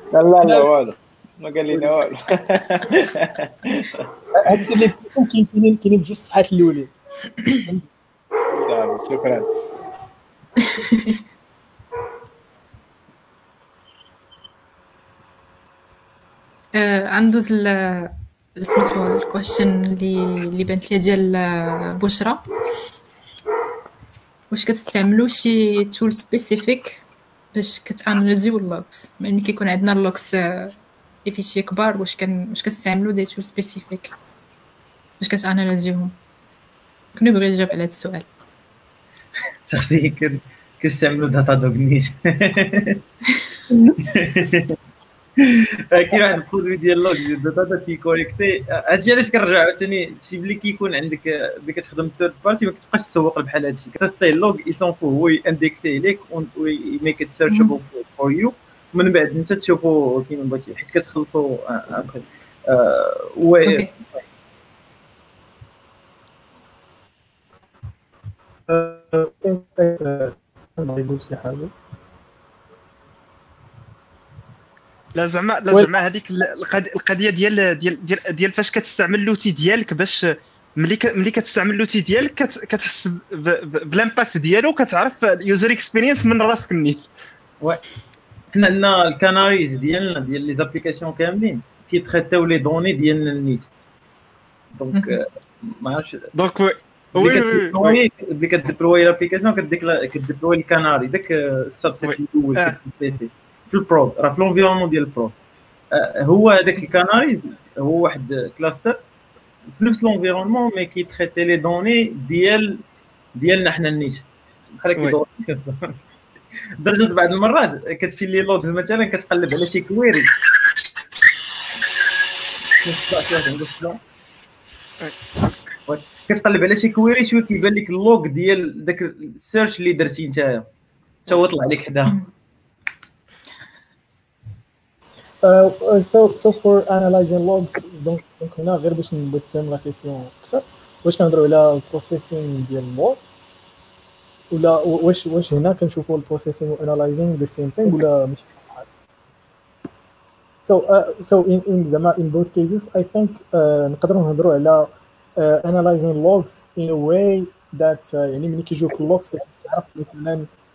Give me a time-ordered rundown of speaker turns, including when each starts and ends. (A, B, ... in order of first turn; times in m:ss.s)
0:00.1-0:04.0 A
0:00.4-0:00.7 B
0:04.4-0:07.8 B
0:08.5-0:09.5 A
0:10.6-0:11.2 C
0:16.8-0:22.4 C
0:24.5-0:27.0 C
0:27.5-0:34.1 C
0:35.2-0:36.1 C
0:37.1-0:38.3 C
0:39.7-0:43.0 D
0:44.0-0:44.8 D
0:45.4-1:03.9 D
0:57.5-0:57.8 C
1:03.6-1:03.9 C
1:08.7-1:11.7 B
1:15.1-1:27.1 E
1:28.5-1:33.7 D
1:34.7-1:36.3 D
1:34.9-1:35.2 C
1:36.3-1:38.0 E
1:37.1-1:45.4 D
1:42.0-1:42.8 E
1:45.9-1:49.0 D
1:49.7-1:52.8 D
1:53.4-1:56.0 D
1:56.8-2:00.4 D
2:02.8-2:04.0 D
2:05.9-2:10.7 D
2:11.3-2:12.2 D
2:15.4-2:23.4 B
2:24.5-2:28.9 B
2:30.6-2:40.5 B